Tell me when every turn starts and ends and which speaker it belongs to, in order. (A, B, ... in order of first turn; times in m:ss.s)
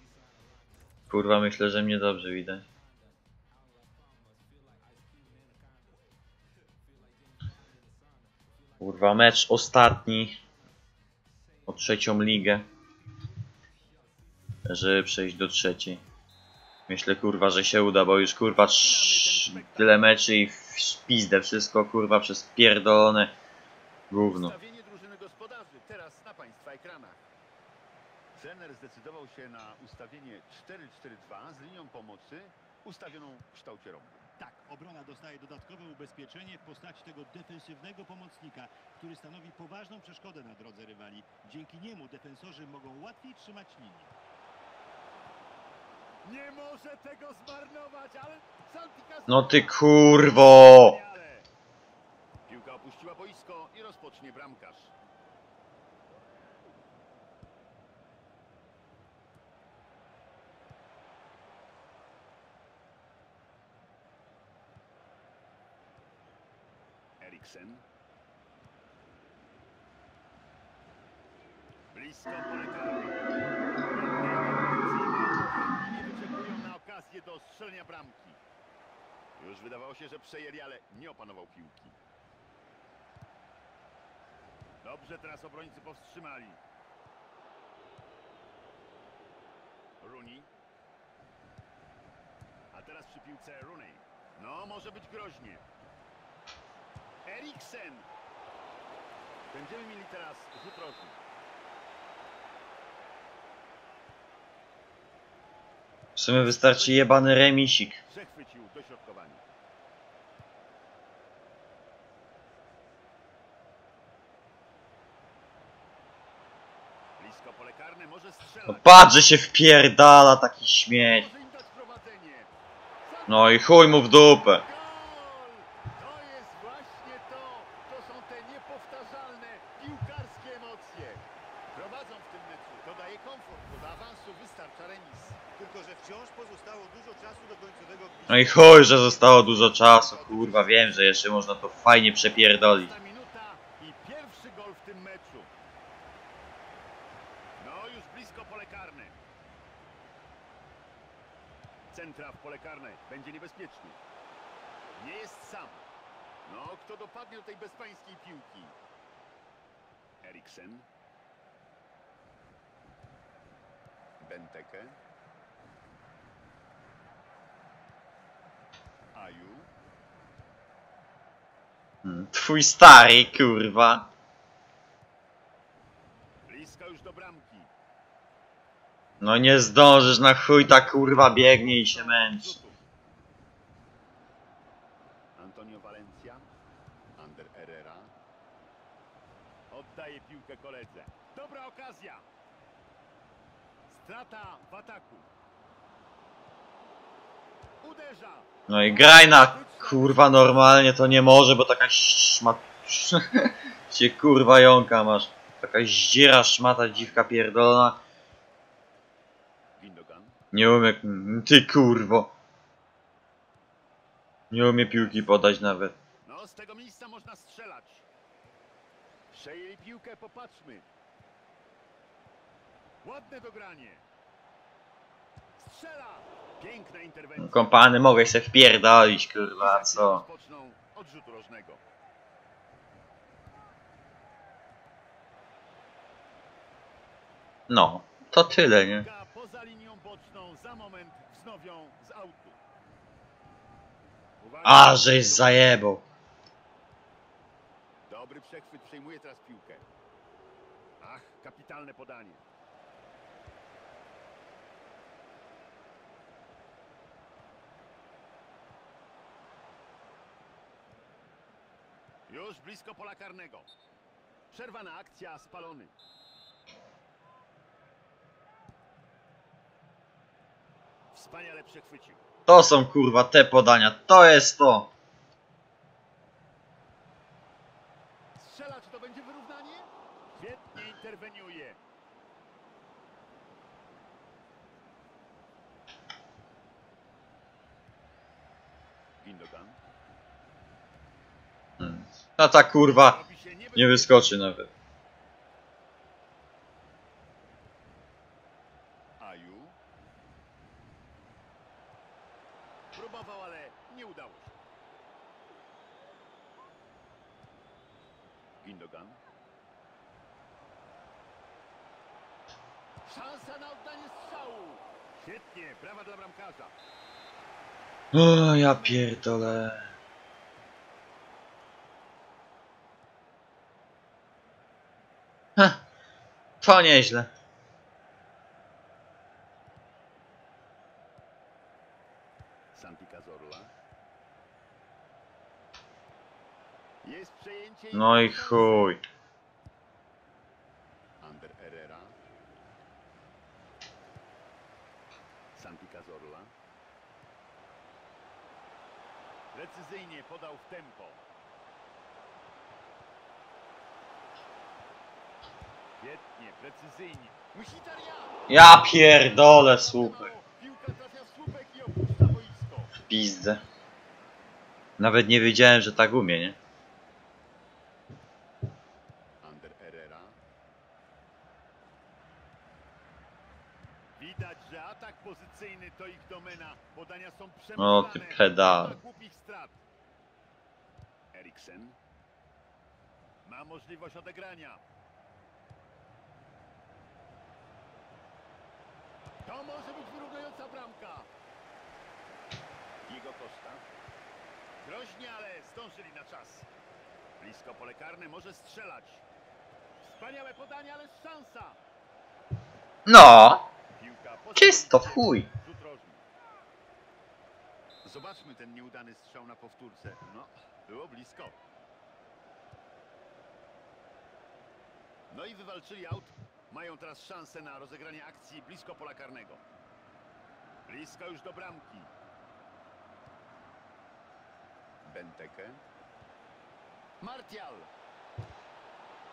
0:01.1-0:02.6 A
0:08.8-0:10.4 A
0:11.7-0:12.6 A
0:14.6-0:16.0 A
0:16.9-0:23.3 A
0:18.6-0:20.1 B
0:24.1-0:24.5 A
0:24.2-0:27.2 B
0:28.3-0:34.4 B
0:34.4-0:44.1 C
0:46.2-0:51.5 B
0:49.3-0:51.0 A
0:52.5-0:54.9 B
1:07.2-1:07.8 B
1:11.9-1:13.2 B
1:13.9-1:18.4 B
1:19.4-1:22.0 B
1:24.8-1:26.6 B
1:30.0-1:30.5 B
1:32.7-1:35.6 B
1:37.2-1:38.1 B
1:39.5-1:41.2 B
1:46.2-1:48.0 A
1:46.4-1:47.3 B
1:48.0-1:49.4 B
1:57.2-1:59.4 B
1:58.7-2:01.3 A
2:01.0-2:02.5 B
2:03.0-2:03.6 B
2:03.3-2:04.6 A
2:04.5-2:15.6 B
2:15.6-2:18.9 C
2:18.3-2:22.9 A
2:19.2-2:21.2 B
2:22.6-2:25.5 B
2:27.6-2:29.2 B
2:31.9-2:34.0 B
2:35.0-2:35.8 B
2:36.4-2:38.8 B
2:40.2-2:40.9 B
2:44.2-2:45.0 B
2:49.1-2:49.7 B
2:52.0-2:54.1 A
2:56.5-2:57.7 B
2:59.2-3:02.5 A
3:00.8-3:02.8 B
3:05.4-3:06.5 B
3:07.2-3:08.1 B
3:09.7-3:12.3 B
3:13.9-3:15.3 B
3:17.8-3:20.8 B
3:18.7-3:28.0 A
3:26.9-3:27.4 B
3:29.8-3:30.4 B
3:30.5-3:32.3 A
3:34.5-3:36.0 A
3:36.2-3:38.0 B
3:39.3-3:40.9 B
3:43.0-3:44.0 B
3:45.6-3:47.7 B
3:47.4-3:50.2 A
3:49.6-3:51.8 B
3:57.7-3:59.0 A
3:59.0-4:02.6 B
4:04.4-4:05.8 B
4:04.6-4:06.0 A
4:08.1-4:09.8 B
4:11.0-4:12.4 B
4:22.3-4:23.7 B
4:24.5-4:25.9 B
4:31.1-4:32.2 B
4:32.5-4:34.9 A
4:38.4-4:41.8 B
4:49.2-4:49.8 B
4:51.8-4:53.2 A
4:52.8-4:54.3 B
4:53.7-4:54.7 A
4:59.2-4:59.8 B
5:02.9-5:04.6 B
5:08.6-5:09.2 B
5:13.0-5:16.7 B
5:18.1-5:19.9 A
5:25.6-5:25.8 A
5:26.6-5:27.3 A
5:32.7-5:33.7 B
5:37.0-5:39.0 B
5:37.9-5:39.0 A
5:41.2-5:42.2 B
5:45.5-5:46.5 B
5:49.5-5:51.2 B
5:56.0-5:58.4 B
5:58.5-6:00.3 A
5:59.4-6:03.0 B
6:03.1-6:03.6 A
6:05.0-6:06.6 A
6:09.4-6:10.4 B
6:14.2-6:19.8 B
6:17.8-6:19.0 A
6:21.3-6:22.0 B
6:23.4-6:24.8 B
6:29.4-6:31.3 B
6:33.0-6:33.8 B
6:34.8-6:36.7 B
6:37.4-6:39.2 B
6:40.0-6:41.8 B
6:43.0-6:43.7 A
6:43.9-6:46.2 B
6:44.6-6:45.5 A
6:48.0-6:51.6 B
6:55.3-6:59.6 B
7:00.9-7:02.1 B
7:05.0-7:05.8 B
7:07.2-7:07.9 B